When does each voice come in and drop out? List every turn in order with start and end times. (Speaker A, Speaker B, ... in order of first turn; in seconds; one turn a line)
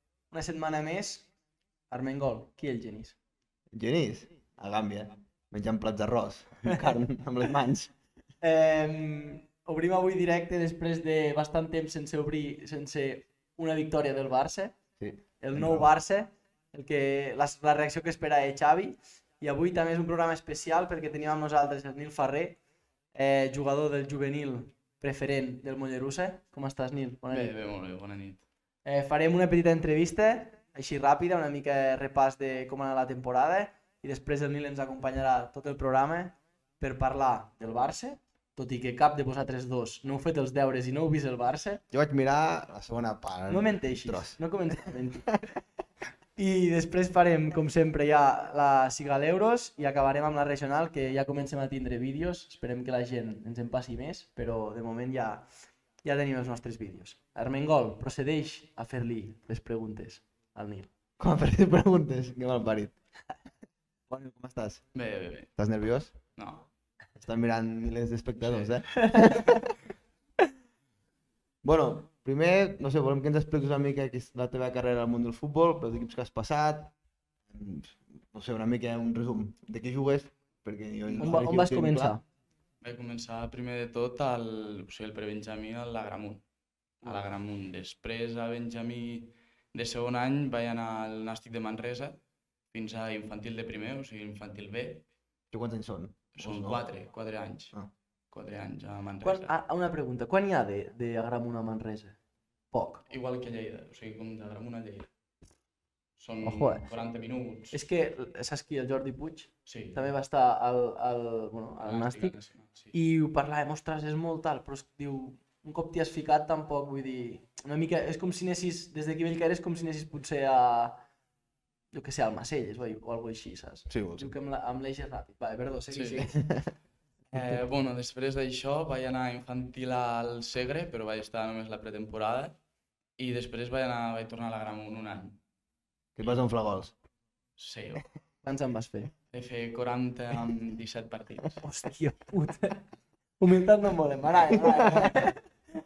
Speaker A: 0.3-1.3
Speaker A: 1.9-3.1
Speaker B: 3.7-7.9
Speaker A: 6.6-7.0
Speaker A: 8.4-14.8
Speaker B: 15.0-15.9
Speaker A: 15.4-22.6
Speaker A: 23.1-27.5
Speaker C: 27.3-28.4
Speaker A: 28.8-41.8
Speaker B: 41.9-44.9
Speaker A: 43.5-45.3
Speaker A: 46.4-55.5
Speaker A: 56.0-60.9
Speaker B: 61.2-63.0
Speaker B: 64.1-64.8
Speaker C: 64.9-65.5
Speaker B: 65.6-66.1
Speaker C: 66.3-66.7
Speaker B: 67.2-69.7
Speaker C: 68.4-69.5
Speaker A: 69.0-69.4
Speaker B: 71.6-76.9
Speaker B: 77.5-82.2
Speaker C: 81.1-81.5
Speaker A: 81.2-82.2
Speaker C: 82.8-86.4
Speaker C: 87.0-92.2
Speaker C: 92.7-95.0
Speaker B: 95.5-96.8
Speaker C: 96.3-97.7
Speaker C: 98.3-99.5
Speaker A: 99.2-102.2
Speaker A: 102.7-103.0
Speaker C: 103.1-105.1
Speaker C: 106.2-107.8
Speaker A: 106.4-106.8
Speaker A: 107.7-112.3
Speaker C: 109.7-110.0
Speaker C: 111.8-112.9
Speaker A: 112.9-121.0
Speaker A: 121.9-126.4
Speaker B: 123.9-124.3
Speaker C: 125.9-126.2
Speaker C: 127.3-132.6
Speaker C: 133.2-135.4
Speaker B: 136.2-136.9
Speaker C: 137.6-138.0
Speaker A: 138.4-139.1
Speaker C: 139.3-141.6
Speaker A: 141.6-142.8
Speaker A: 143.4-145.5
Speaker B: 144.5-145.2